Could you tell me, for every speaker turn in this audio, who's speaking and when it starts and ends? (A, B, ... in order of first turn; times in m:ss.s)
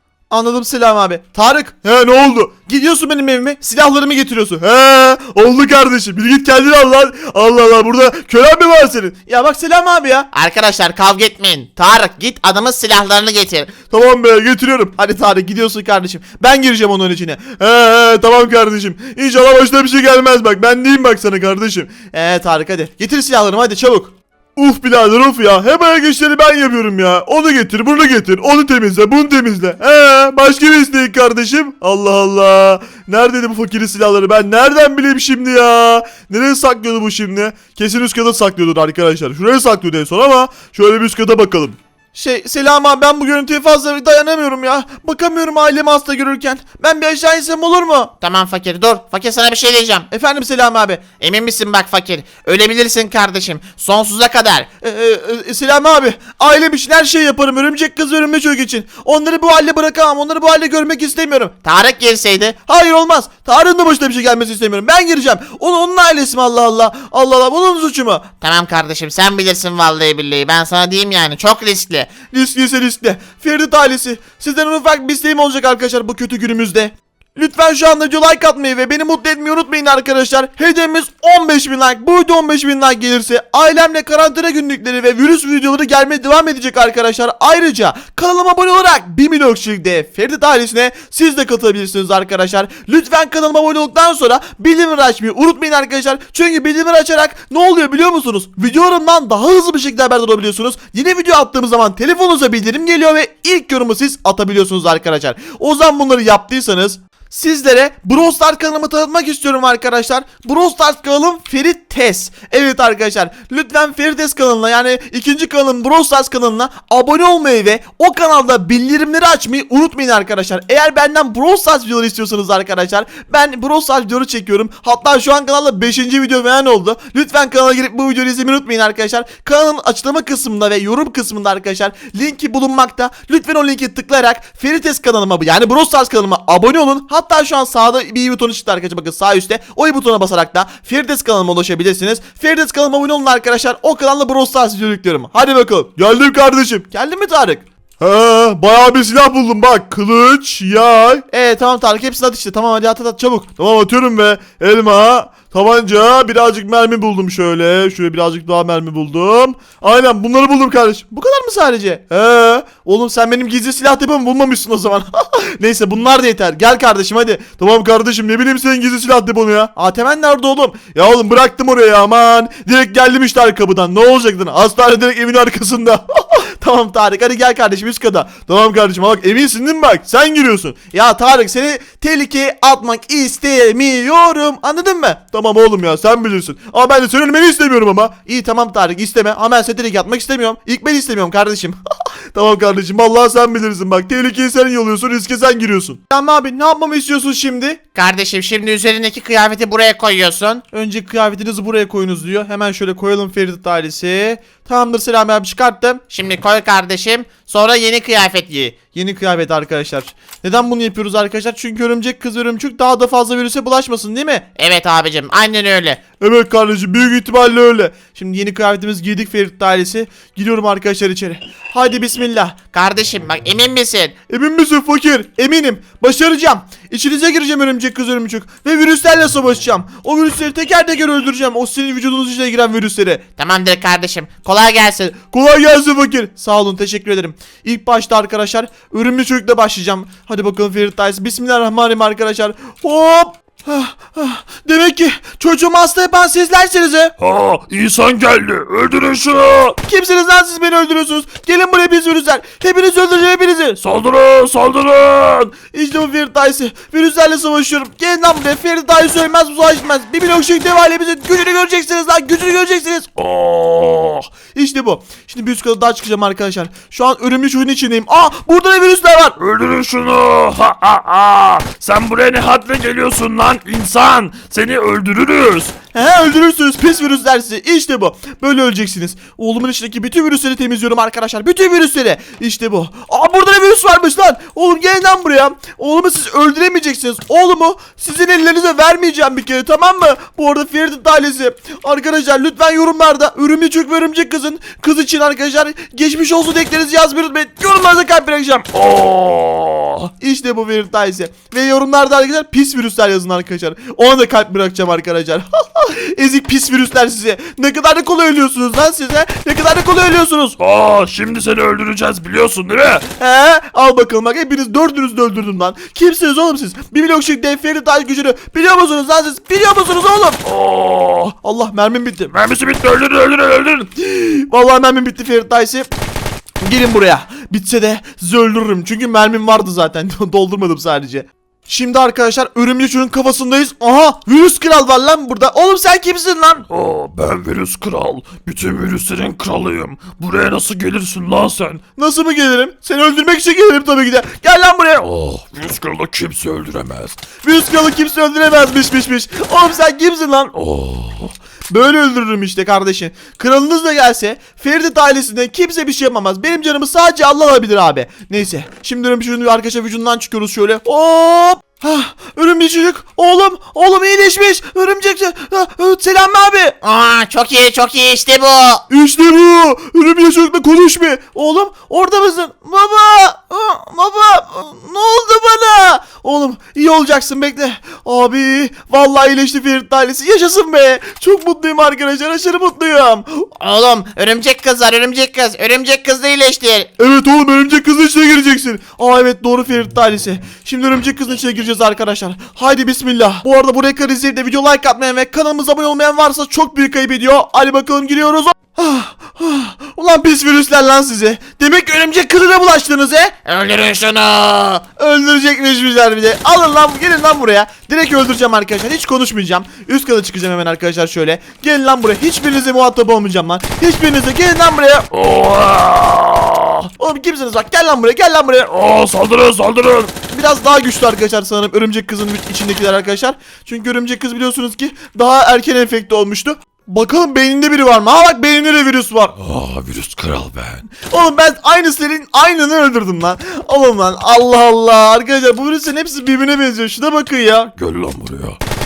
0:00.3-0:10.3 A
0:10.3-0:13.7 B
0:13.9-0:48.1 A
0:48.2-0:50.1 B
0:50.1-0:51.0 A
0:51.2-0:54.7 B
0:54.8-1:01.6 A
1:01.6-1:02.6 B
1:02.6-1:08.3 A
1:08.4-1:12.1 B
1:12.3-3:11.8 A
3:12.3-3:17.8 A
3:17.9-3:20.6 B
3:20.7-3:26.0 A
3:26.1-3:28.8 B
3:28.9-3:34.5 A
3:34.6-3:36.0 B
3:36.2-3:42.6 A
3:42.7-3:44.2 B
3:44.3-3:53.2 A
3:53.4-3:55.2 B
3:55.2-4:07.1 A
4:07.2-4:09.8 C
4:09.8-4:13.8 A
4:13.8-4:15.5 C
4:15.7-4:23.2 A
4:23.2-4:24.3 C
4:24.5-4:29.4 A
4:29.4-4:35.7 C
4:35.9-4:58.7 A
4:58.7-5:00.0 C
5:00.2-5:10.6 A
5:10.6-5:13.1 C
5:13.2-5:20.4 A
5:20.4-5:21.3 C
5:21.4-5:22.4 A
5:22.3-5:23.9 C
5:24.0-5:25.9 A
5:26.6-5:36.6 A
5:36.7-5:41.8 C
5:42.0-5:45.0 A
5:45.0-5:47.2 C
5:47.4-5:50.5 A
5:50.6-5:51.3 C
5:51.7-6:06.8 A
6:06.8-6:08.8 B
6:08.9-6:23.5 A
6:23.6-6:26.9 B
6:27.0-6:43.4 A
6:43.4-6:44.8 B
6:44.9-6:55.1 A
6:55.1-6:56.8 C
6:56.9-6:58.7 A
6:58.6-7:00.1 C
7:00.1-7:09.3 A
7:09.4-7:10.9 C
7:11.0-7:17.7 A
7:17.8-7:18.6 C